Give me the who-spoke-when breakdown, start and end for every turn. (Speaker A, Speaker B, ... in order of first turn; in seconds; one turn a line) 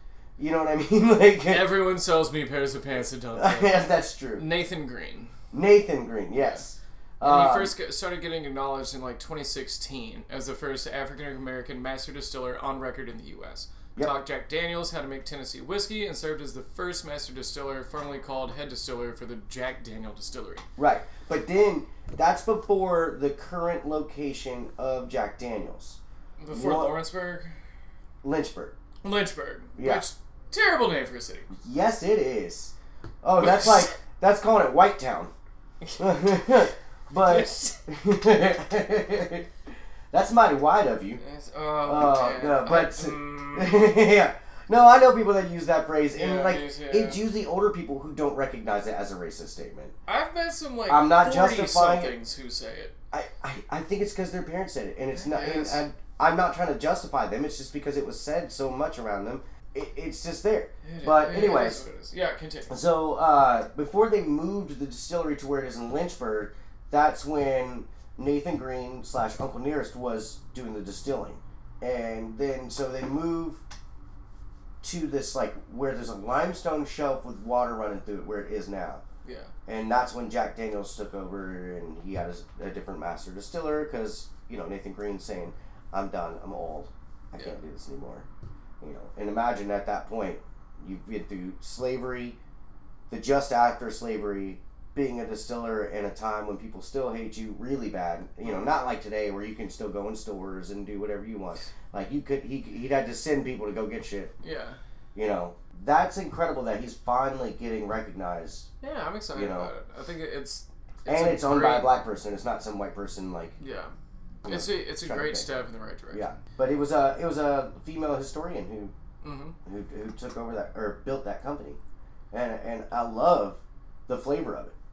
Speaker A: 0.4-1.7
Speaker B: 1.5-5.3
Speaker A: 3.3-4.4
Speaker A: 5.5-7.7
Speaker B: 6.4-6.6
Speaker B: 7.2-20.6
Speaker A: 20.8-26.0
Speaker B: 26.4-27.6
Speaker A: 26.5-26.9
Speaker A: 28.2-28.7
Speaker B: 29.0-31.5
Speaker A: 29.8-30.1
Speaker A: 31.5-35.3
Speaker B: 33.4-33.7
Speaker B: 35.8-36.2
Speaker A: 36.0-39.5
Speaker B: 37.2-37.5
Speaker A: 40.1-41.2
Speaker B: 41.2-43.9
Speaker A: 41.9-49.9
Speaker B: 46.1-47.2
Speaker B: 50.0-52.9
Speaker A: 50.9-52.1
Speaker A: 53.1-61.8
Speaker B: 55.1-55.8
Speaker B: 60.8-62.8
Speaker A: 62.7-73.6
Speaker A: 74.8-79.0
Speaker B: 79.2-79.5
Speaker A: 79.7-88.2
Speaker A: 88.8-92.4
Speaker A: 93.1-104.3
Speaker B: 98.4-98.8
Speaker B: 104.4-104.8
Speaker A: 105.1-108.7
Speaker B: 108.8-111.9
Speaker A: 109.3-109.7
Speaker A: 111.1-113.6
Speaker B: 113.6-113.9
Speaker A: 114.4-115.5
Speaker B: 114.4-116.3
Speaker A: 116.1-118.9
Speaker B: 119.2-119.5
Speaker A: 119.7-121.8
Speaker A: 122.3-124.7